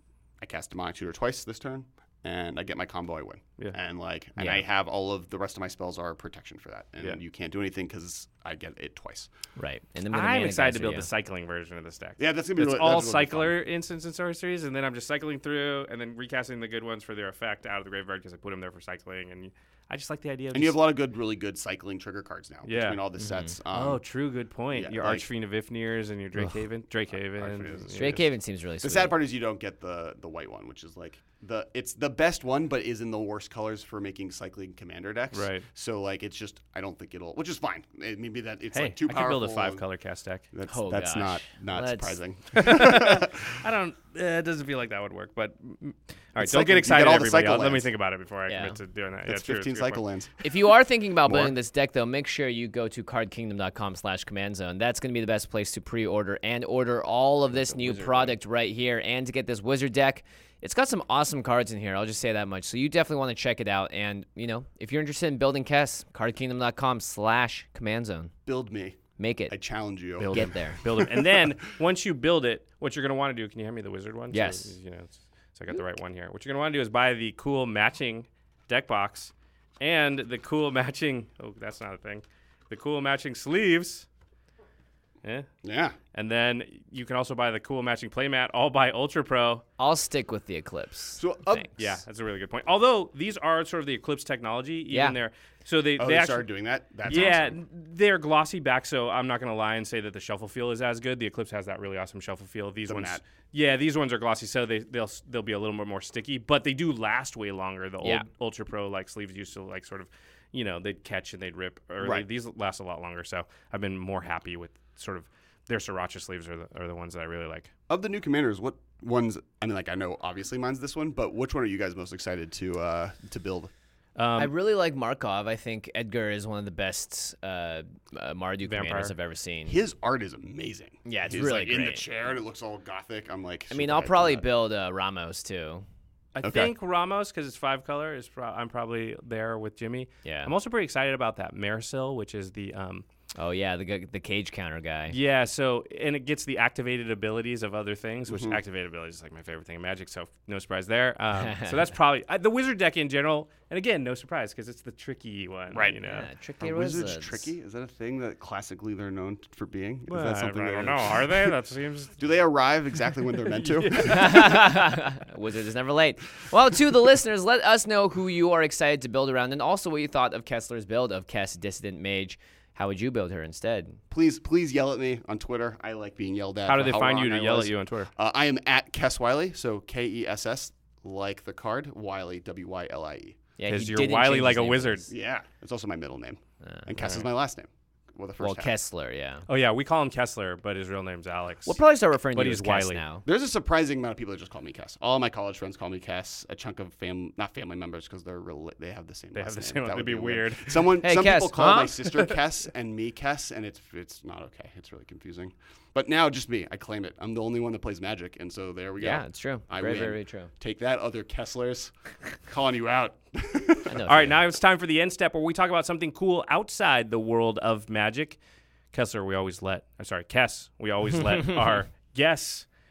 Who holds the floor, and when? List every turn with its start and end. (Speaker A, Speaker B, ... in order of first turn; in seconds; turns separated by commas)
Speaker A: 0.4-9.3, Speaker B: 4.4-4.6, Speaker B: 9.6-11.1, Speaker C: 10.1-20.8, Speaker A: 12.2-13.6, Speaker A: 20.5-24.0, Speaker C: 22.6-23.0, Speaker B: 23.2-23.5, Speaker C: 23.7-28.2, Speaker A: 24.7-25.3, Speaker A: 27.1-28.3, Speaker B: 27.9-29.1, Speaker A: 28.8-39.8, Speaker C: 35.3-35.7, Speaker C: 38.7-40.5, Speaker A: 40.5-43.5, Speaker B: 40.7-42.2, Speaker C: 42.5-50.0, Speaker A: 46.4-47.9, Speaker B: 48.5-48.8, Speaker A: 49.2-50.5, Speaker B: 50.4-68.3, Speaker A: 51.2-51.5, Speaker A: 57.7-58.3, Speaker A: 68.5-71.5, Speaker B: 69.2-69.5, Speaker C: 70.2-84.0, Speaker B: 70.3-70.8, Speaker B: 74.3-74.7, Speaker A: 85.6-86.0, Speaker C: 86.1-89.6, Speaker B: 89.8-91.7, Speaker A: 91.2-91.9, Speaker C: 91.7-96.5, Speaker B: 94.9-95.2, Speaker A: 96.0-97.6, Speaker C: 97.0-117.7, Speaker A: 102.8-103.2, Speaker A: 112.0-112.2, Speaker A: 117.9-123.7, Speaker C: 124.2-124.5, Speaker B: 124.4-129.8, Speaker C: 128.6-129.1, Speaker A: 129.7-134.5, Speaker B: 131.0-132.1, Speaker B: 133.7-135.8, Speaker C: 136.3-143.1, Speaker A: 136.4-136.7, Speaker B: 140.2-140.5, Speaker B: 143.3-145.2, Speaker C: 145.1-156.2, Speaker A: 148.3-148.6, Speaker B: 151.4-151.7, Speaker A: 155.7-156.0, Speaker B: 156.0-157.5, Speaker A: 156.6-161.5, Speaker C: 160.1-162.2, Speaker A: 162.2-164.5, Speaker C: 163.4-164.5, Speaker B: 164.0-174.0, Speaker A: 174.1-183.4, Speaker C: 176.7-178.1, Speaker B: 183.6-185.1, Speaker C: 183.7-185.1, Speaker A: 185.1-188.7, Speaker B: 186.6-186.9, Speaker B: 188.4-189.4, Speaker C: 189.5-193.0, Speaker B: 191.7-193.2, Speaker A: 193.2-213.9, Speaker C: 199.3-200.9, Speaker B: 201.0-202.2, Speaker B: 209.0-210.5, Speaker B: 213.9-214.4, Speaker C: 214.1-218.4, Speaker C: 218.9-222.7